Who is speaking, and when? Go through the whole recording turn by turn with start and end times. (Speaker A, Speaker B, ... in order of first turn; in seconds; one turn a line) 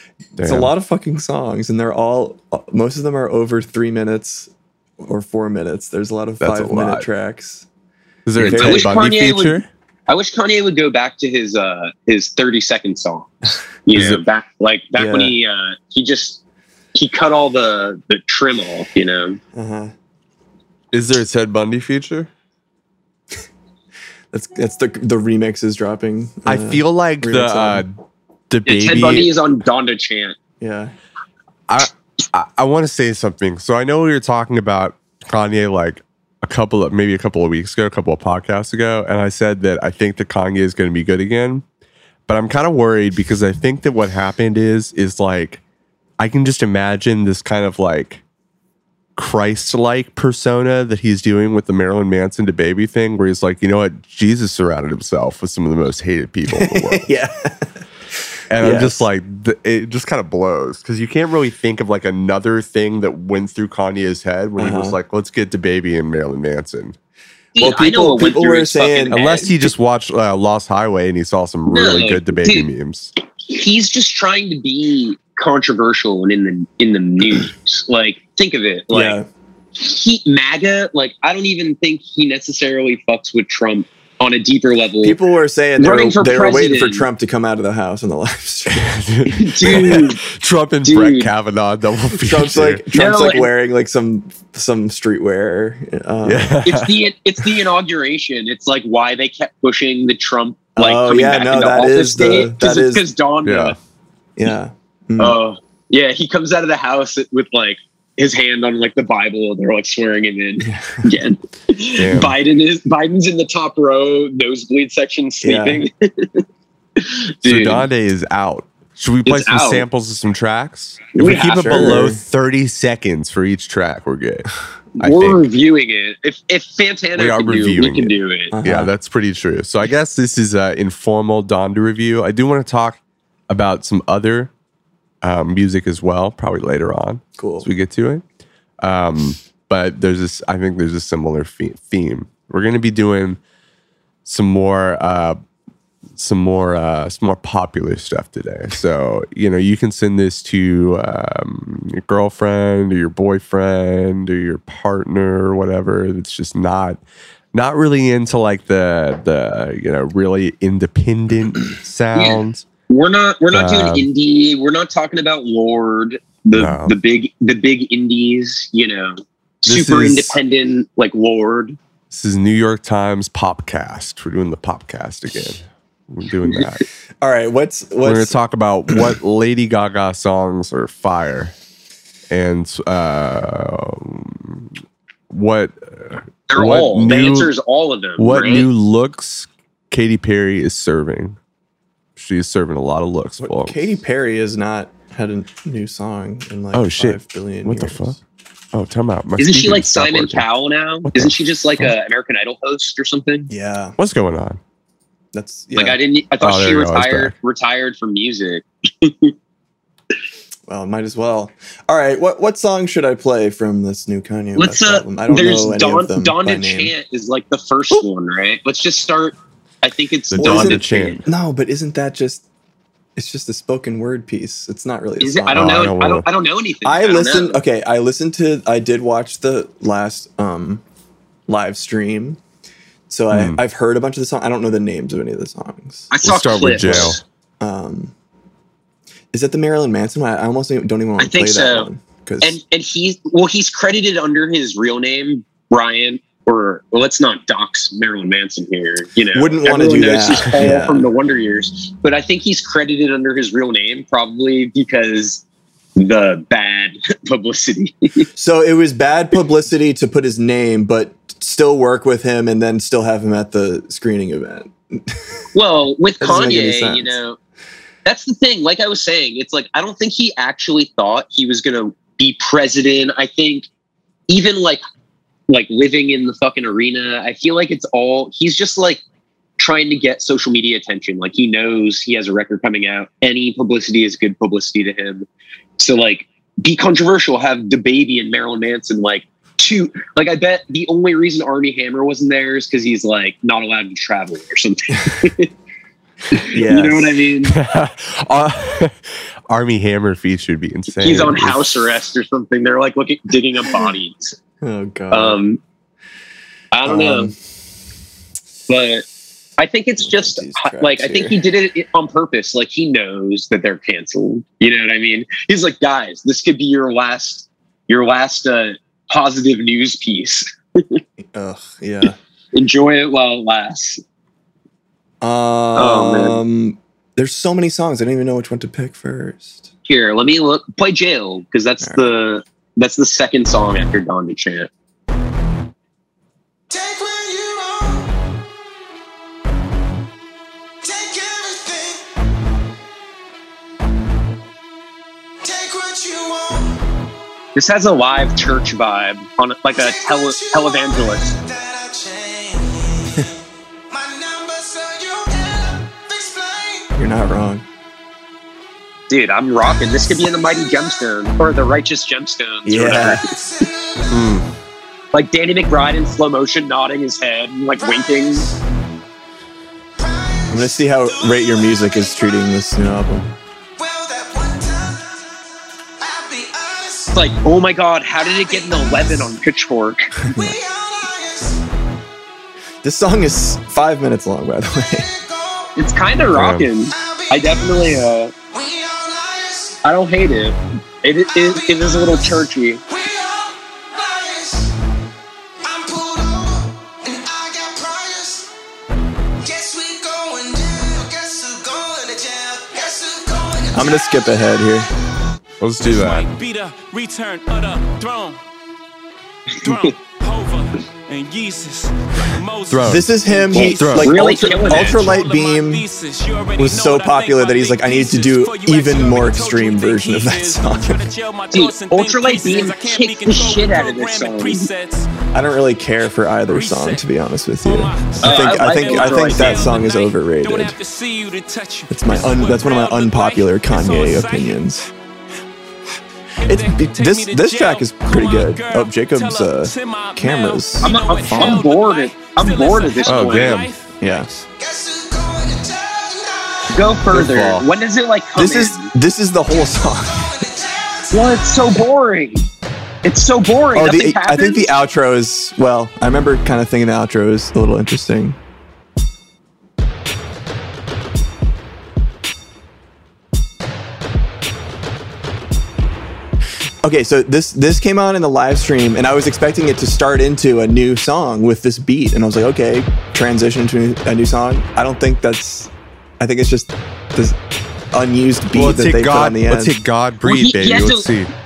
Speaker A: 0.4-0.7
Speaker B: 0.4-7.7
Speaker A: 6.4-7.1
Speaker A: 8.3-9.7
Speaker B: 8.4-9.0
Speaker C: 8.4-16.4
Speaker A: 13.9-14.2
Speaker B: 14.9-15.4
Speaker C: 16.9-19.4
Speaker B: 19.5-19.9
Speaker A: 20.9-22.3
Speaker B: 24.3-27.9
Speaker A: 26.5-29.3
Speaker C: 28.7-30.4
Speaker B: 30.6-30.9
Speaker A: 31.7-41.6
Speaker A: 42.3-45.6
Speaker A: 46.2-48.2
Speaker A: 49.2-57.1
Speaker B: 56.5-57.8
Speaker A: 58.5-67.0
Speaker B: 58.6-59.0
Speaker B: 64.6-65.0
Speaker C: 67.5-69.6
Speaker B: 67.6-69.2
Speaker A: 69.1-73.1
Speaker C: 71.7-72.7
Speaker C: 73.4-79.2
Speaker B: 78.9-79.3
Speaker C: 79.8-85.2
Speaker B: 85.0-88.9
Speaker C: 85.8-87.1
Speaker A: 88.7-92.8
Speaker C: 89.3-90.2
Speaker C: 90.8-91.3
Speaker B: 92.2-96.6
Speaker C: 92.9-93.5
Speaker A: 96.2-97.0
Speaker C: 96.7-103.8
Speaker B: 100.8-103.1
Speaker A: 103.5-103.8
Speaker B: 104.4-105.4
Speaker C: 105.2-116.4
Speaker B: 110.6-111.1
Speaker A: 112.0-112.3
Speaker B: 115.4-115.8
Speaker C: 117.0-117.9
Speaker A: 117.4-125.5
Speaker C: 119.3-119.9
Speaker C: 121.1-122.0
Speaker B: 121.7-122.2
Speaker C: 125.0-128.6
Speaker A: 127.2-134.5
Speaker B: 128.5-128.9
Speaker A: 135.2-138.2
Speaker B: 137.4-137.7
Speaker A: 138.8-143.4
Speaker A: 144.2-145.4
Speaker A: 146.2-157.0
Speaker A: 157.5-162.7
Speaker C: 162.1-171.8
Speaker A: 163.5-164.1
Speaker A: 166.5-167.0
Speaker A: 169.7-170.4
Speaker A: 172.1-176.9
Speaker B: 177.2-178.4
Speaker A: 178.0-181.5
Speaker A: 182.3-184.7
Speaker A: 185.3-187.5
Speaker C: 186.5-188.7
Speaker A: 188.2-191.4
Speaker A: 192.2-193.9
Speaker B: 193.4-198.2
Speaker A: 196.7-198.2
Speaker A: 198.7-200.4
Speaker C: 199.4-203.5
Speaker A: 201.1-201.9
Speaker B: 203.5-204.0
Speaker A: 204.0-204.6
Speaker B: 205.3-206.0
Speaker C: 205.8-209.3
Speaker A: 206.4-207.3
Speaker B: 210.7-216.9
Speaker C: 214.6-221.2
Speaker A: 220.3-221.3
Speaker B: 220.4-222.4
Speaker B: 223.2-225.9
Speaker C: 225.2-227.6
Speaker A: 225.5-226.2
Speaker B: 226.8-230.8
Speaker B: 231.5-232.4
Speaker B: 233.1-236.1
Speaker A: 233.3-233.6
Speaker C: 236.1-237.2
Speaker A: 236.2-237.2
Speaker B: 236.7-238.1
Speaker B: 239.3-242.6
Speaker C: 241.2-241.9
Speaker C: 242.4-255.4
Speaker B: 249.3-251.1
Speaker C: 256.0-258.3
Speaker B: 258.4-265.2
Speaker C: 265.5-267.4
Speaker B: 266.2-267.2
Speaker C: 268.1-273.7
Speaker C: 274.3-274.8
Speaker C: 275.5-279.0
Speaker C: 279.6-285.3
Speaker C: 285.8-295.5
Speaker C: 296.3-297.6
Speaker B: 296.4-297.2
Speaker A: 297.4-299.0
Speaker A: 299.5-301.7
Speaker C: 301.0-304.4
Speaker B: 304.6-305.4
Speaker C: 305.1-305.6
Speaker C: 306.7-307.3
Speaker B: 306.9-307.4
Speaker C: 308.7-309.1
Speaker C: 309.6-321.0
Speaker B: 310.0-311.4
Speaker B: 321.2-322.2
Speaker C: 322.5-324.0
Speaker B: 325.2-329.7
Speaker C: 325.8-326.4
Speaker C: 329.9-334.7
Speaker B: 331.8-332.1
Speaker D: 336.7-338.0
Speaker D: 340.8-342.0
Speaker D: 345.4-346.7
Speaker C: 347.6-351.4
Speaker D: 349.8-353.0
Speaker D: 353.9-356.9
Speaker B: 356.9-357.7
Speaker C: 359.1-363.2
Speaker B: 362.7-363.2
Speaker D: 363.2-364.3
Speaker A: 364.1-364.5
Speaker C: 365.1-368.5
Speaker D: 367.8-368.6
Speaker D: 370.0-372.1
Speaker B: 370.5-373.3
Speaker D: 373.8-375.2
Speaker D: 376.0-377.1
Speaker C: 377.1-380.1
Speaker D: 378.4-379.3
Speaker B: 380.2-380.6
Speaker D: 380.3-381.6
Speaker B: 382.8-385.1
Speaker D: 385.2-385.7
Speaker C: 385.8-388.3
Speaker A: 386.3-386.7
Speaker D: 386.9-389.8
Speaker C: 389.8-392.8
Speaker D: 391.4-392.3
Speaker D: 392.9-394.7
Speaker D: 395.6-398.5
Speaker D: 399.4-403.9
Speaker B: 403.7-404.9
Speaker A: 405.6-406.3
Speaker E: 405.8-408.4
Speaker E: 409.6-425.1
Speaker A: 412.7-413.1
Speaker B: 412.9-415.9
Speaker C: 413.5-415.0
Speaker A: 413.6-414.1
Speaker B: 416.6-421.1
Speaker C: 421.5-424.7
Speaker B: 425.3-430.8
Speaker E: 426.5-427.0
Speaker E: 427.6-434.7
Speaker C: 428.2-429.8
Speaker B: 431.9-434.9
Speaker E: 436.4-444.4
Speaker B: 436.4-441.6
Speaker C: 440.8-443.6
Speaker A: 443.1-443.7
Speaker B: 444.0-444.3
Speaker D: 444.6-446.6
Speaker C: 446.7-448.9
Speaker A: 447.0-447.6
Speaker B: 448.4-450.3
Speaker D: 450.1-451.4
Speaker C: 451.1-452.5
Speaker C: 453.0-454.8
Speaker B: 453.7-458.4
Speaker B: 466.8-477.4
Speaker B: 477.9-479.8
Speaker A: 478.6-481.3
Speaker C: 480.2-481.1